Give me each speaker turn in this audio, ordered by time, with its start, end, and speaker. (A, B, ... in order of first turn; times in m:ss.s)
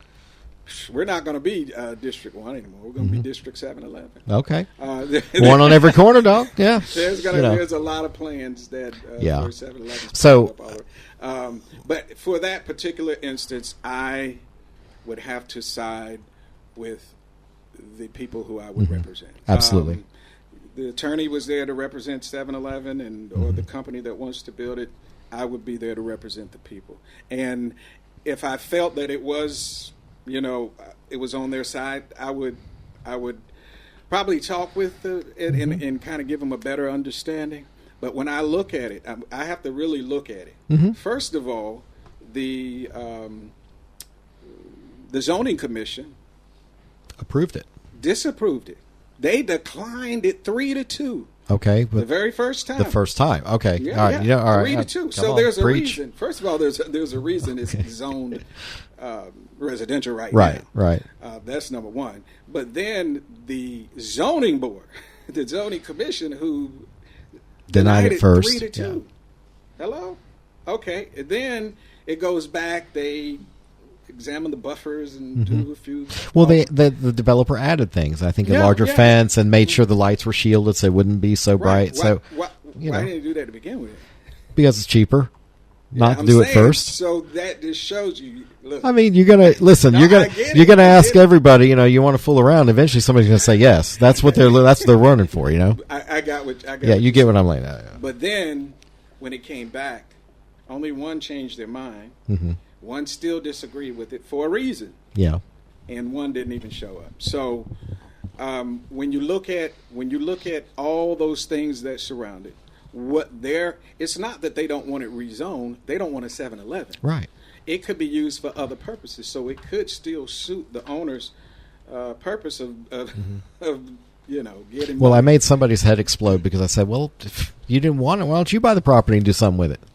0:00.7-0:04.3 A
0:03.0-0:03.2 B
0:04.3-0:04.7 B
0:04.8-0:14.4 A
0:05.2-0:07.6 B
0:09.2-0:09.5 B
0:10.1-0:10.6 B
0:15.0-0:17.2 A
0:17.8-0:20.1 A
0:18.8-0:20.0 B
0:20.7-0:33.5 A
0:23.4-0:23.6 B
0:34.1-0:43.5 A
0:40.7-0:41.0 B
0:45.1-0:46.2 A
0:47.2-0:47.7 B
0:48.0-0:51.3 A
0:51.5-0:52.1 B
0:52.0-0:53.0 A
0:52.8-0:56.0 B
0:53.8-1:06.9 A
1:00.3-1:01.0 B
1:07.7-1:09.0 B
1:07.7-1:09.1 A
1:09.8-1:13.4 A
1:14.1-1:16.7 A
1:15.4-1:15.7 B
1:16.2-1:22.2 B
1:18.4-1:19.8 A
1:21.6-1:24.0 A
1:22.8-1:23.1 B
1:24.6-1:25.3 B
1:25.9-1:26.9 B
1:26.0-1:31.2 A
1:28.8-1:35.8 B
1:34.2-1:35.0 A
1:35.8-1:37.3 A
1:36.8-1:38.0 B
1:37.9-1:40.2 A
1:40.7-1:42.2 A
1:42.3-1:42.6 B
1:42.8-1:45.0 A
1:45.2-1:45.4 B
1:45.9-1:47.7 A
1:48.4-1:57.0 A
1:57.0-1:57.3 B
1:57.7-2:01.3 A
2:01.9-2:05.4 A
2:05.0-2:09.8 B